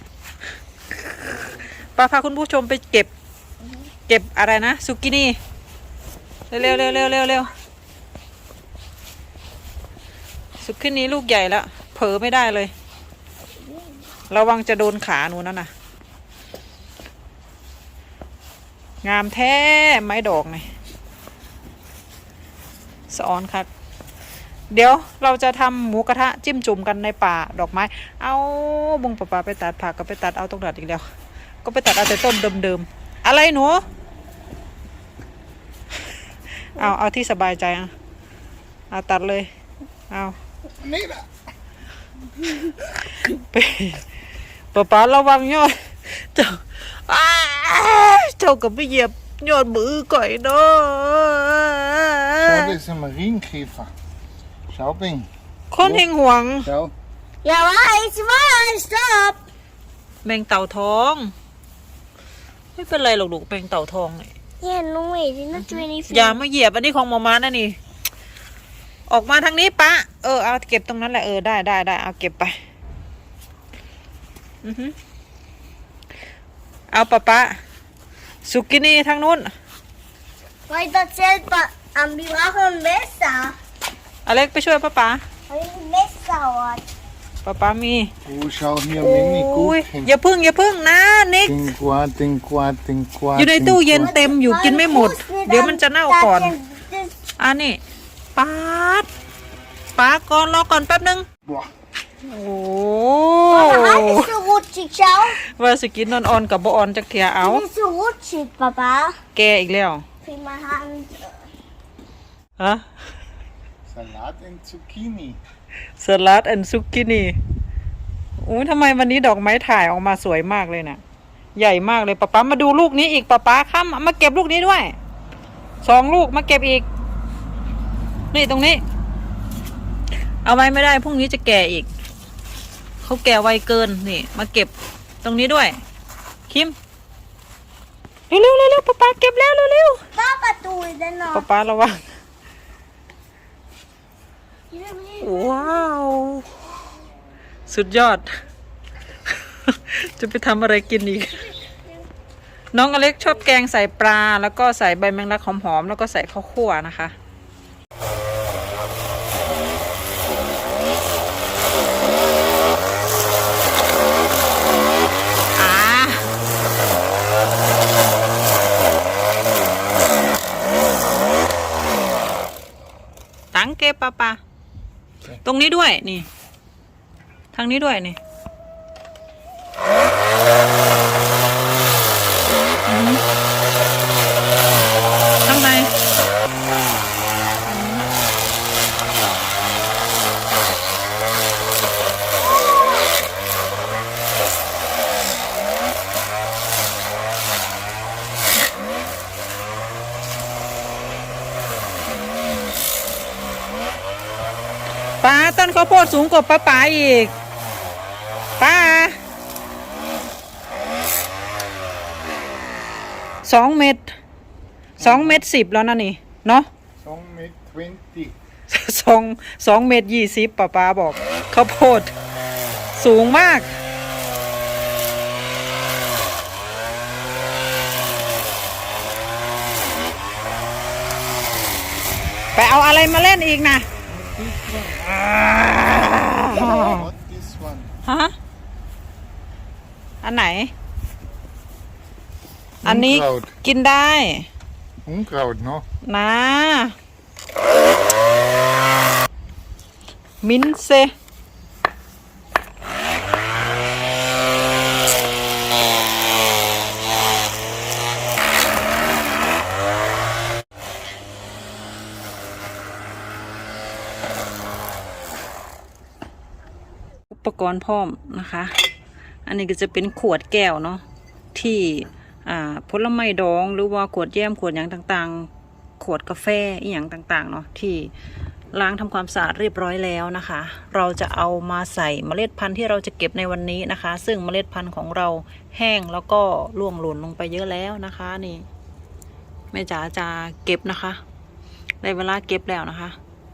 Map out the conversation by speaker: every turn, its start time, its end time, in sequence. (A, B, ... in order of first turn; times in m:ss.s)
0:00.9-0:01.4 A
0:01.9-0:03.1 A
0:04.1-0:05.4 A
0:06.5-0:07.5 A
0:10.6-0:12.7 A
0:14.3-0:15.7 A
0:19.0-0:20.7 A
0:23.1-0:23.7 A
0:24.7-0:31.1 A
0:31.6-0:33.8 A
0:36.5-0:37.9 A
0:38.9-0:39.5 A
0:40.1-0:40.4 A
0:40.8-0:41.3 B
0:43.2-0:44.0 A
0:44.7-0:52.8 A
0:52.4-0:53.9 B
0:54.7-0:55.3 B
0:55.7-0:56.7 A
0:56.6-0:56.9 B
0:57.4-0:59.4 C
1:00.2-1:01.3 A
1:02.8-1:04.3 A
1:04.6-1:06.4 C
1:05.6-1:07.8 A
1:09.1-1:12.6 A
1:14.6-1:14.9 A
1:16.9-1:17.6 A
1:18.4-1:19.5 A
1:20.7-1:23.6 C
1:24.2-1:25.2 A
1:25.5-1:26.8 C
1:27.4-1:28.1 A
1:28.2-1:30.1 B
1:29.0-1:31.7 A
1:31.4-1:34.1 B
1:33.4-1:36.6 A
1:34.0-1:37.1 C
1:37.4-1:37.8 A
1:38.3-1:39.1 A
1:39.9-1:41.2 A
1:42.2-1:44.4 A
1:43.5-1:45.4 C
1:45.4-1:47.6 A
1:47.4-1:49.2 C
1:49.3-1:50.0 A
1:50.2-1:51.4 C
1:52.6-1:53.0 A
1:53.9-1:55.4 B
1:56.0-1:57.4 A
1:58.4-2:01.0 A
2:01.6-2:04.9 A
2:05.8-2:06.8 A
2:08.3-2:08.8 A
2:10.4-2:11.9 A
2:13.0-2:15.8 A
2:16.5-2:16.8 A
2:18.3-2:20.0 A
2:20.1-2:21.4 C
2:21.3-2:22.0 A
2:24.7-2:25.8 C
2:25.2-2:26.5 A
2:27.7-2:28.2 A
2:29.3-2:31.5 A
2:32.7-2:37.1 A
2:45.6-2:46.2 A
2:53.5-2:54.4 A
2:55.4-2:56.3 A
2:57.5-2:58.2 A
3:02.9-3:03.2 A
3:05.4-3:05.9 A
3:07.6-3:08.0 A
3:25.2-3:27.3 A
3:28.6-3:29.2 A
3:33.4-3:34.1 A
3:35.0-3:36.7 A
3:35.0-3:35.4 B
3:37.0-3:38.3 B
3:38.7-3:42.1 A
3:42.9-3:43.7 A
3:52.6-3:53.9 A
3:54.1-3:55.3 B
3:55.4-3:57.1 A
3:56.5-3:57.9 B
3:58.0-3:58.3 A
4:00.2-4:00.7 A
4:02.8-4:03.5 B
4:02.8-4:04.5 A
4:05.0-4:05.8 B
4:06.0-4:06.9 A
4:10.4-4:11.1 A
4:27.3-4:28.7 A
4:29.4-4:31.0 A
4:31.5-4:35.5 A
4:36.0-4:38.1 A
4:38.7-4:48.6 A
4:49.7-4:51.2 A
4:52.0-4:53.2 A